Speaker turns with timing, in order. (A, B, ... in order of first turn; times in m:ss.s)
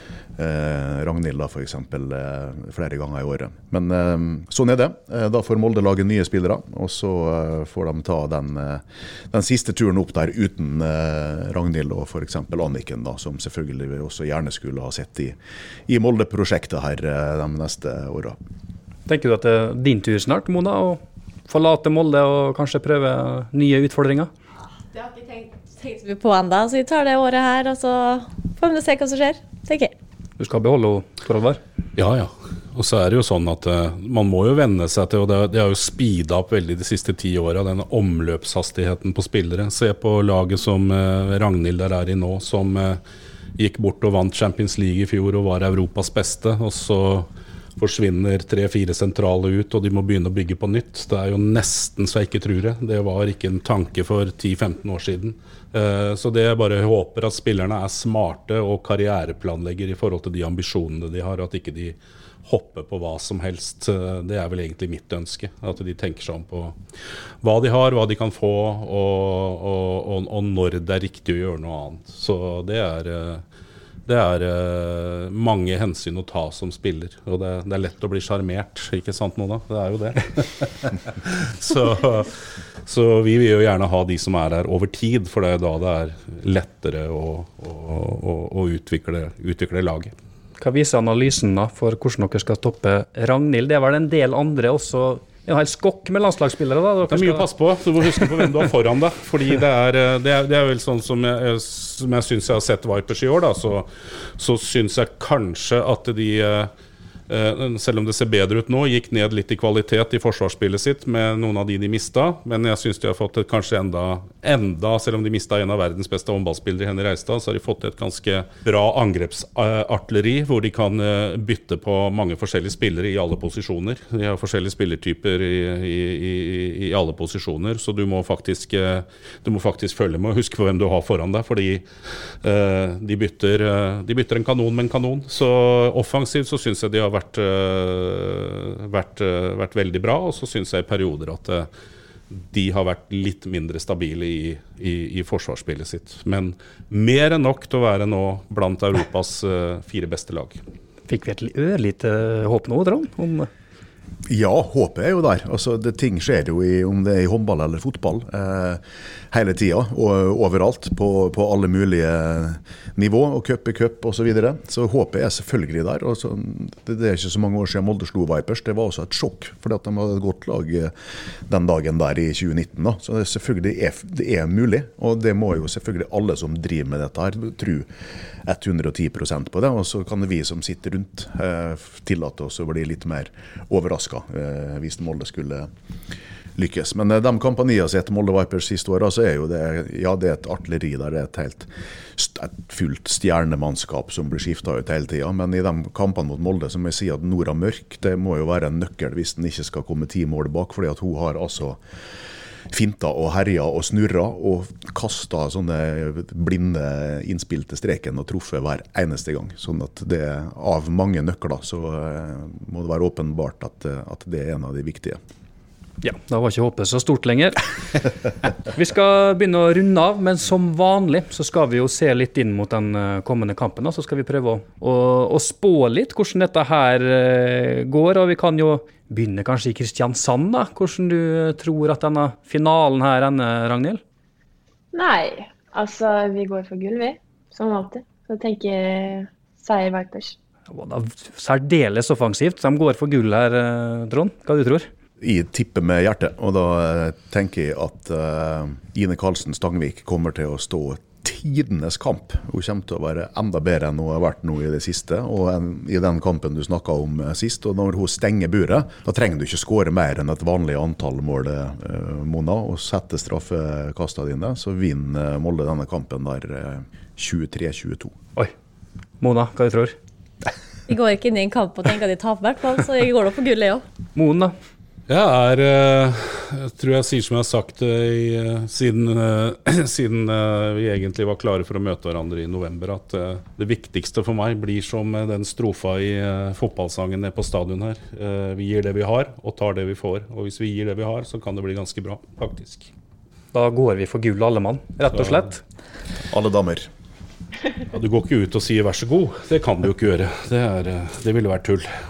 0:00.4-0:15.4 A
0:15.9-0:18.4 A
0:19.1-0:24.3 B
0:24.9-0:29.9 C
0:30.4-0:31.6 B
0:32.0-0:43.0 D
0:43.6-1:06.8 D
1:07.4-1:13.4 D
1:14.0-1:30.1 D
1:30.6-1:37.4 B
1:37.1-1:46.7 D
1:47.3-2:11.8 D
2:12.4-2:21.7 D
2:22.3-2:30.6 D
2:31.1-2:33.5 B
2:34.3-2:50.9 A
2:51.5-2:57.9 A
2:58.4-3:05.7 A
3:06.6-3:21.8 A
3:22.7-3:35.2 A
3:36.0-3:37.6 B
3:38.7-3:54.0 B
3:54.9-4:00.4 E
4:00.7-4:04.9 B
4:05.2-4:28.1 A
4:29.2-4:30.0 B
4:30.9-4:33.8 C
4:34.2-4:34.5 B
4:35.1-4:52.9 D
4:53.5-4:55.6 B
4:56.3-4:56.9 A
4:57.9-5:02.0 D